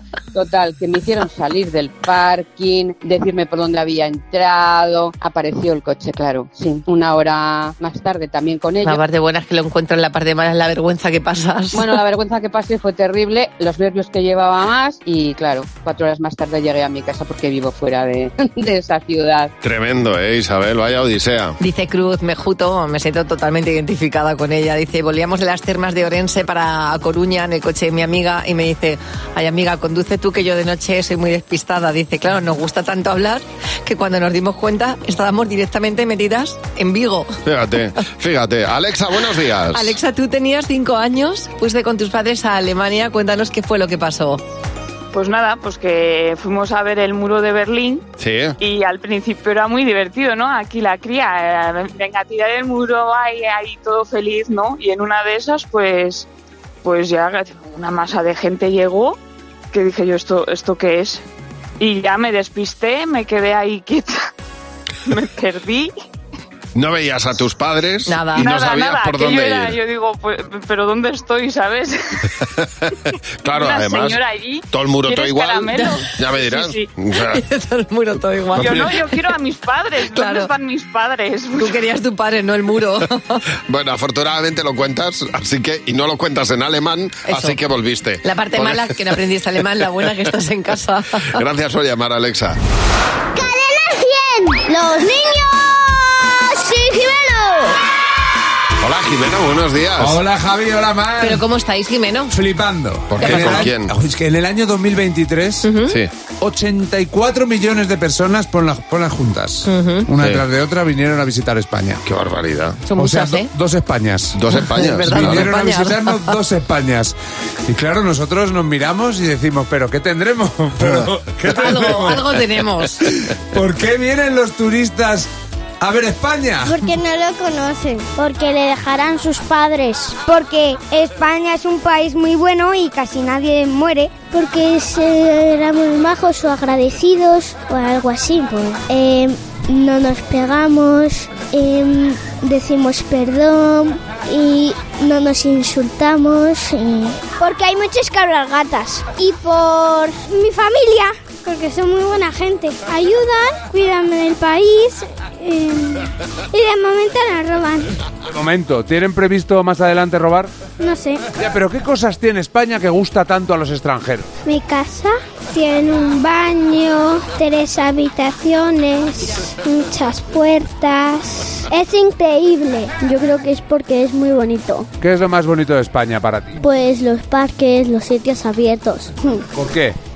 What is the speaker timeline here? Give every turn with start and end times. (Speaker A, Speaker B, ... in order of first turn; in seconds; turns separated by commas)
Speaker A: 0.3-9.0, Speaker B: 8.8-12.0, Speaker A: 11.7-19.5, Speaker C: 19.6-21.6, Speaker B: 21.6-37.3, Speaker C: 37.5-40.0, Speaker B: 39.7-44.4, Speaker D: 45.1-48.0, Speaker C: 48.2-48.6, Speaker D: 48.6-56.3, Speaker D: 56.8-59.2, Speaker D: 59.7-61.2, Speaker D: 61.8-64.2, Speaker D: 65.1-65.9, Speaker C: 66.8-69.8, Speaker B: 68.1-68.5, Speaker D: 68.4-72.2, Speaker C: 73.4-77.4, Speaker D: 73.5-76.9, Speaker B: 77.3-79.1, Speaker C: 78.5-78.9, Speaker D: 78.6-81.8, Speaker B: 80.1-80.5, Speaker B: 81.6-83.4, Speaker C: 83.7-88.8, Speaker B: 87.3-87.6, Speaker B: 88.2-91.3, Speaker C: 91.4-92.6, Speaker E: 93.3-97.8, Speaker C: 98.8-100.2, Speaker F: 100.0-101.4, Speaker B: 101.2-102.3, Speaker F: 102.3-105.7, Speaker C: 103.1-103.9, Speaker B: 103.2-103.7, Speaker B: 105.6-106.0, Speaker C: 105.8-106.1, Speaker F: 106.4-112.0, Speaker B: 109.7-110.1, Speaker C: 112.0-112.8, Speaker B: 112.9-113.5, Speaker F: 113.0-117.2, Speaker C: 114.3-115.5, Speaker B: 114.6-116.3, Speaker F: 117.7-122.3, Speaker B: 121.5-123.0, Speaker F: 123.1-125.3, Speaker F: 125.8-126.8, Speaker E: 126.7-157.9, Speaker F: 158.3-160.5, Speaker E: 160.8-161.3, Speaker F: 161.4-164.3, Speaker E: 164.4-174.9, Speaker F: 175.0-176.6, Speaker E: 176.6-179.5, Speaker F: 179.6-179.9